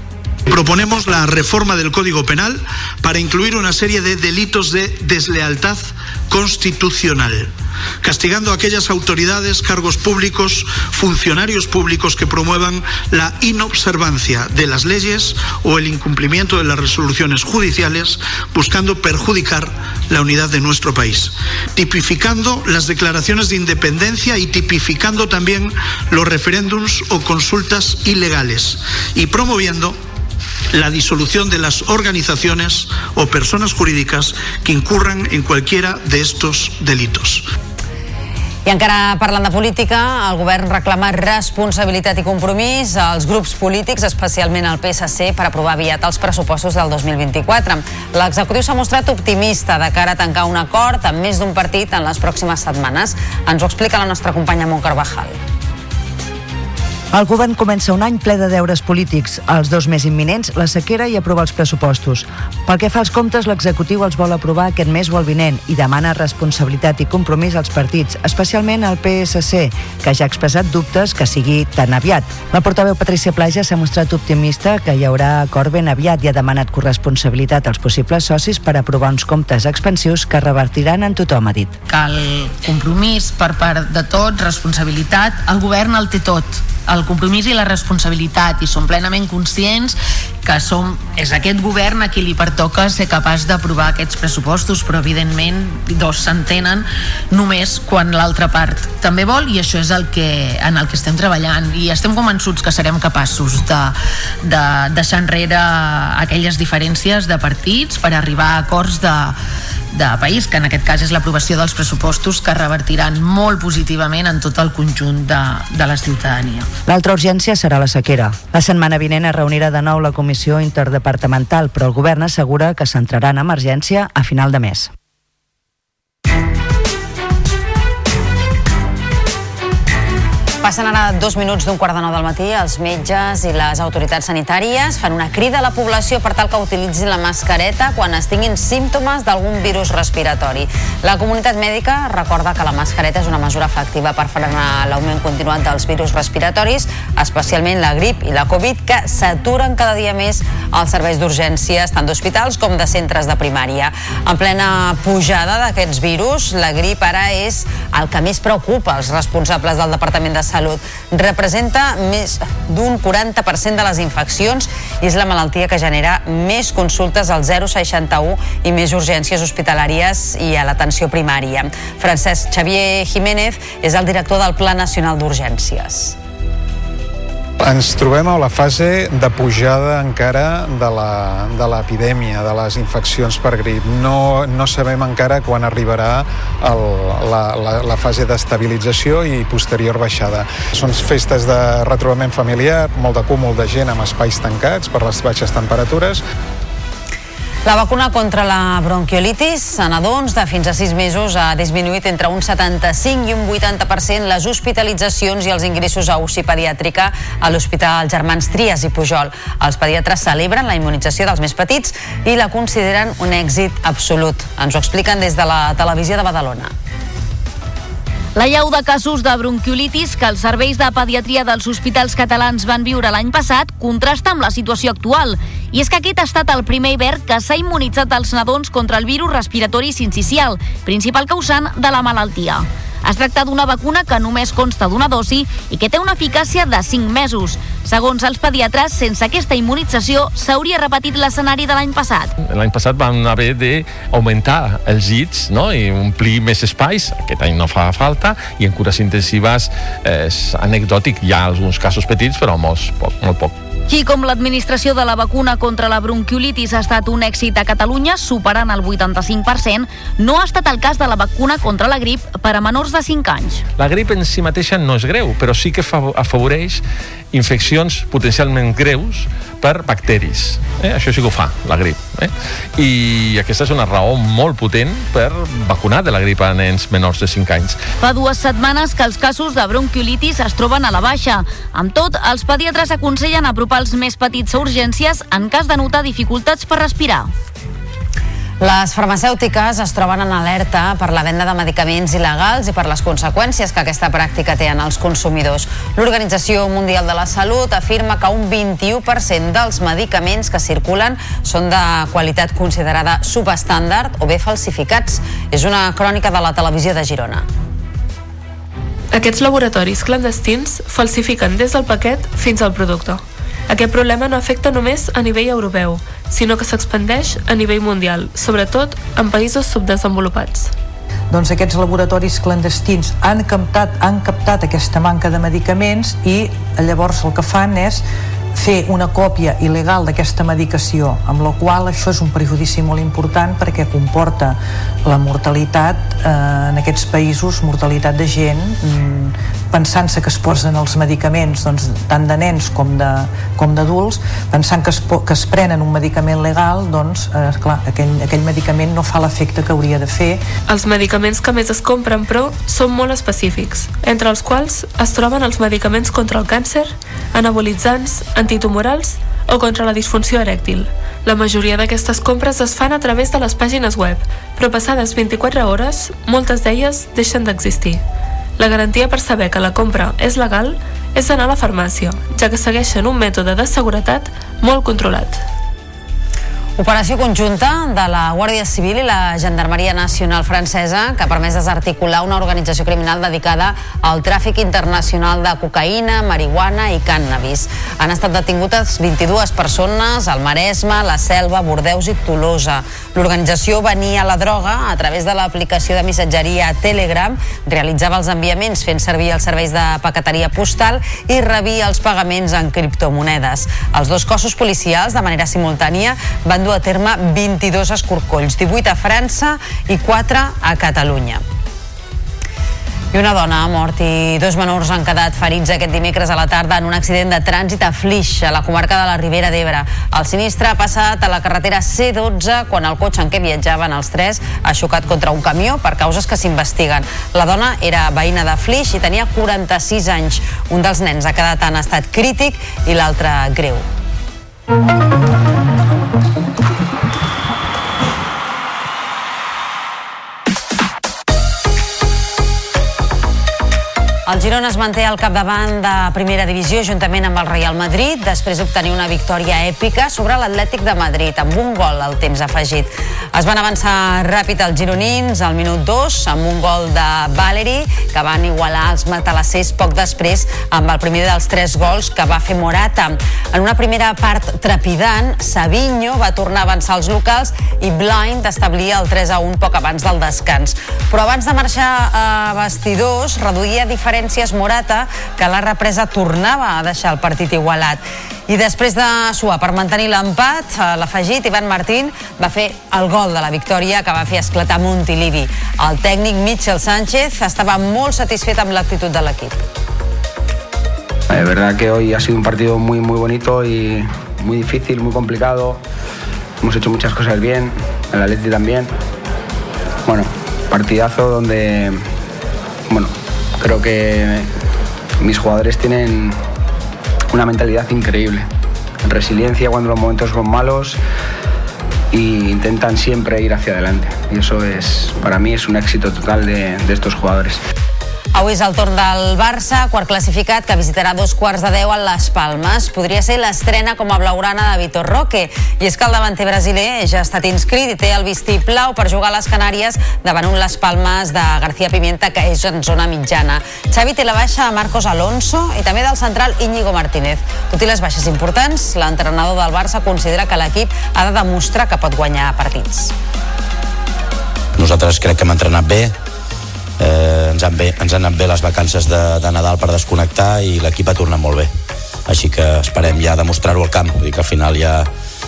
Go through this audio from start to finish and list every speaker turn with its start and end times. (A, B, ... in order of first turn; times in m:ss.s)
0:00.5-0:30.0 A
0:30.7-0:37.5 A
0:38.6-0:55.4 B
0:57.1-1:21.8 C
1:21.9-1:49.4 D
1:49.9-1:56.7 D
1:56.9-2:04.9 C
2:10.6-2:56.2 B
2:59.1-3:05.8 E
3:07.2-3:10.4 E
3:10.9-3:15.0 E
3:15.7-3:16.1 E
3:17.6-3:36.7 B
3:38.4-4:02.3 F
4:02.4-4:13.5 G
4:13.9-4:23.6 F
4:23.8-4:26.8 G
4:27.3-4:37.8 G
4:38.0-4:47.3 F
4:48.6-5:07.4 B
5:09.1-5:20.7 H
5:21.3-5:28.0 I
5:28.6-5:50.4 I
5:50.7-6:08.0 H
6:08.6-6:15.4 H
6:16.8-6:51.4 B
6:53.1-7:13.8 B
7:24.3-8:09.6 B
8:11.3-8:15.8 J
8:16.6-8:18.9 J
8:20.0-8:22.1 J
8:22.9-8:24.5 J
8:25.2-8:26.4 J
8:27.3-8:28.4 J
8:29.0-8:31.0 J
8:32.1-8:37.6 J
8:38.4-9:03.1 B
9:04.8-9:06.1 K
9:07.0-9:11.7 K
9:12.3-9:15.1 K